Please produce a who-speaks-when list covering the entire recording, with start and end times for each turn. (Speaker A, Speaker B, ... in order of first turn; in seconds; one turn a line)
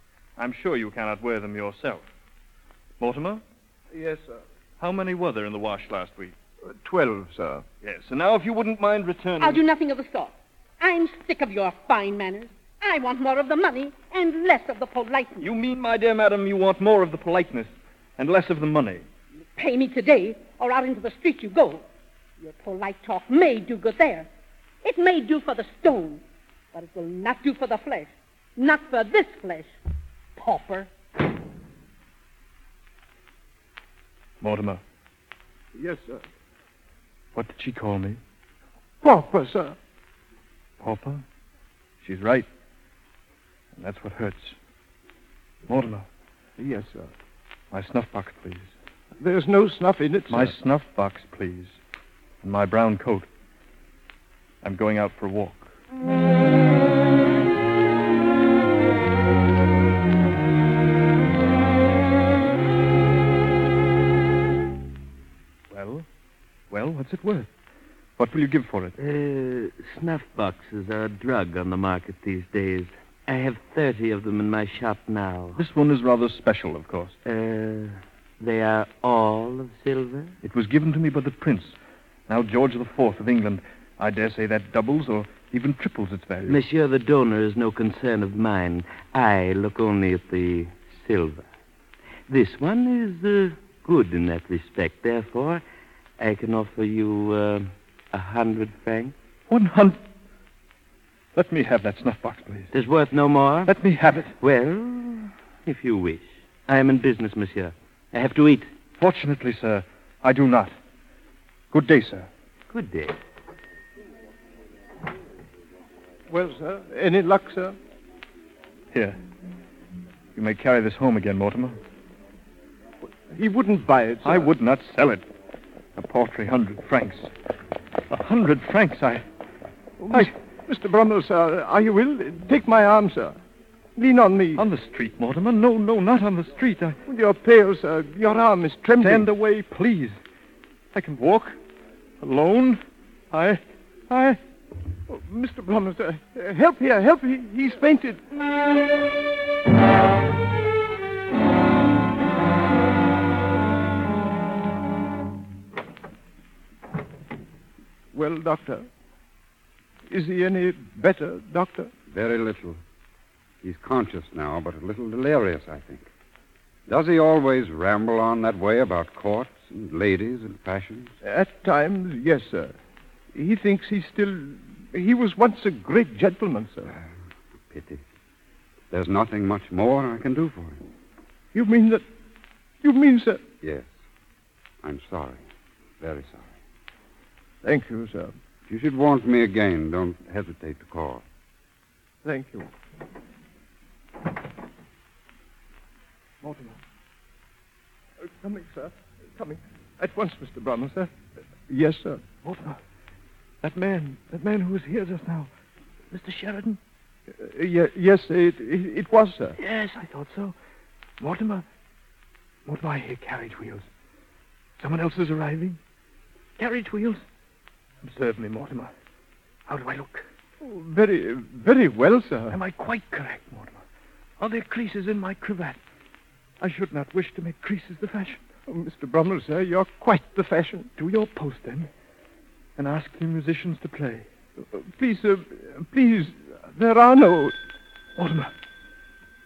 Speaker A: 0.4-2.0
Speaker A: 3.0-3.4
Speaker B: 3.9-4.4
Speaker A: 4.8-6.3
Speaker B: 6.7-7.6
Speaker A: 7.8-9.6
Speaker C: 9.4-15.5
Speaker A: 15.4-19.0
Speaker C: 19.6-21.8
Speaker C: 22.4-24.3
Speaker C: 24.8-26.2
Speaker C: 26.7-29.7
Speaker C: 30.4-30.9
Speaker A: 34.4-34.8
Speaker B: 35.7-36.2
Speaker A: 37.3-38.2
Speaker B: 39.0-39.8
Speaker A: 40.8-41.2
Speaker A: 42.0-42.5
Speaker A: 43.8-44.6
Speaker A: 45.7-46.1
Speaker B: 46.6-47.1
Speaker A: 47.7-48.7
Speaker B: 49.2-50.5
Speaker A: 50.3-51.8
Speaker A: 52.4-53.3
Speaker A: 54.6-55.7
Speaker A: 65.7-66.0
Speaker A: 66.7-67.5
Speaker A: 68.2-69.0
Speaker D: 69.0-75.6
Speaker A: 75.5-77.2
Speaker D: 77.2-80.3
Speaker A: 80.4-81.7
Speaker A: 82.3-86.6
Speaker D: 86.5-91.4
Speaker D: 92.3-95.6
Speaker D: 96.2-99.1
Speaker A: 99.5-100.0
Speaker A: 101.3-102.7
Speaker D: 102.7-103.7
Speaker A: 103.6-104.3
Speaker D: 104.4-108.6
Speaker A: 109.0-110.7
Speaker A: 111.7-112.3
Speaker D: 112.7-113.2
Speaker B: 116.3-117.8
Speaker A: 118.9-119.2
Speaker A: 120.3-121.8
Speaker B: 123.3-124.5
Speaker A: 124.2-125.2
Speaker A: 126.0-127.3
Speaker A: 128.1-129.2
Speaker B: 130.0-133.4
Speaker B: 134.0-134.6
Speaker A: 134.6-137.0
Speaker B: 137.1-139.3
Speaker A: 139.0-140.2
Speaker A: 140.9-141.6
Speaker A: 142.2-144.4
Speaker B: 145.1-148.2
Speaker B: 158.1-158.8
Speaker B: 160.1-161.9
Speaker E: 162.1-162.8
Speaker E: 163.6-166.1
Speaker E: 166.9-171.1
Speaker B: 171.2-172.7
Speaker B: 173.3-176.9
Speaker E: 177.7-178.0
Speaker E: 178.9-180.8
Speaker B: 181.5-182.0
Speaker B: 182.8-183.4
Speaker E: 183.6-183.9
Speaker E: 184.8-185.4
Speaker E: 186.0-186.5
Speaker B: 187.6-188.3
Speaker E: 188.7-191.2
Speaker B: 192.2-192.7
Speaker A: 196.4-196.7
Speaker B: 198.2-201.1
Speaker B: 201.7-202.2
Speaker A: 202.4-202.8
Speaker A: 203.6-205.5
Speaker A: 206.1-206.8
Speaker B: 207.3-209.6
Speaker A: 209.6-210.5
Speaker A: 211.2-211.6
Speaker A: 212.7-213.8
Speaker A: 214.8-215.8
Speaker A: 216.6-217.2
Speaker A: 218.0-218.9
Speaker A: 219.7-220.2
Speaker B: 220.6-222.6
Speaker A: 222.5-223.8
Speaker A: 224.4-225.8
Speaker A: 226.6-228.4
Speaker B: 228.7-230.9
Speaker A: 231.0-231.9
Speaker A: 232.8-234.2
Speaker B: 234.6-237.6
Speaker A: 238.2-238.5